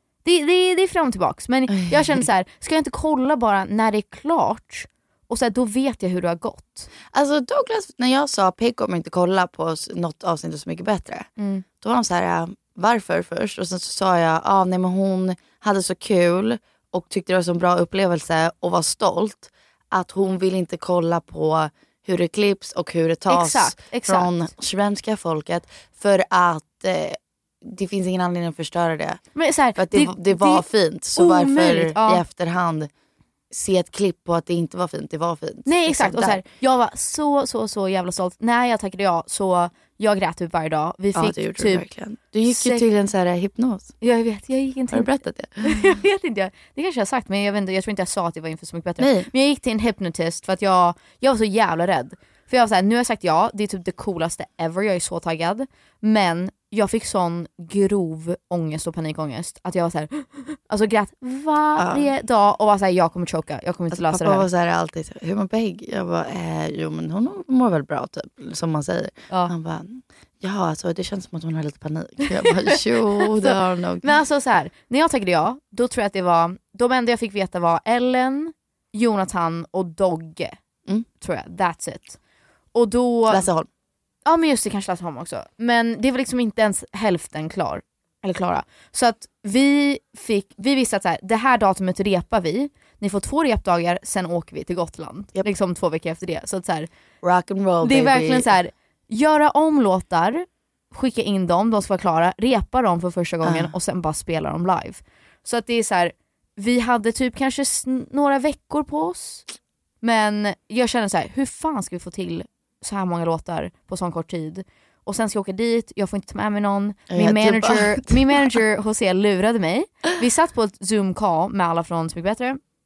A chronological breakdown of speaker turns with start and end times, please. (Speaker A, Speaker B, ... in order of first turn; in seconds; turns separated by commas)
Speaker A: 0.2-6.9, Speaker B: 1.8-2.2, Speaker B: 7.1-11.3, Speaker A: 11.4-11.6, Speaker B: 11.8-29.2, Speaker A: 23.3-24.5, Speaker A: 29.4-32.2, Speaker B: 29.8-32.9, Speaker B: 33.5-36.4, Speaker A: 35.6-41.9, Speaker B: 41.1-43.9, Speaker A: 42.4-42.9, Speaker A: 44.0-45.1, Speaker B: 44.9-46.0, Speaker A: 45.6-64.5, Speaker B: 49.0-49.3, Speaker B: 61.8-62.1, Speaker B: 63.9-74.1, Speaker A: 72.5-80.6, Speaker A: 81.2-82.2, Speaker A: 82.7-83.5, Speaker B: 83.3-83.7, Speaker A: 84.2-96.9, Speaker B: 97.2-98.5, Speaker A: 97.8-109.5, Speaker B: 103.4-103.7, Speaker A: 110.0-122.6, Speaker B: 117.1-118.6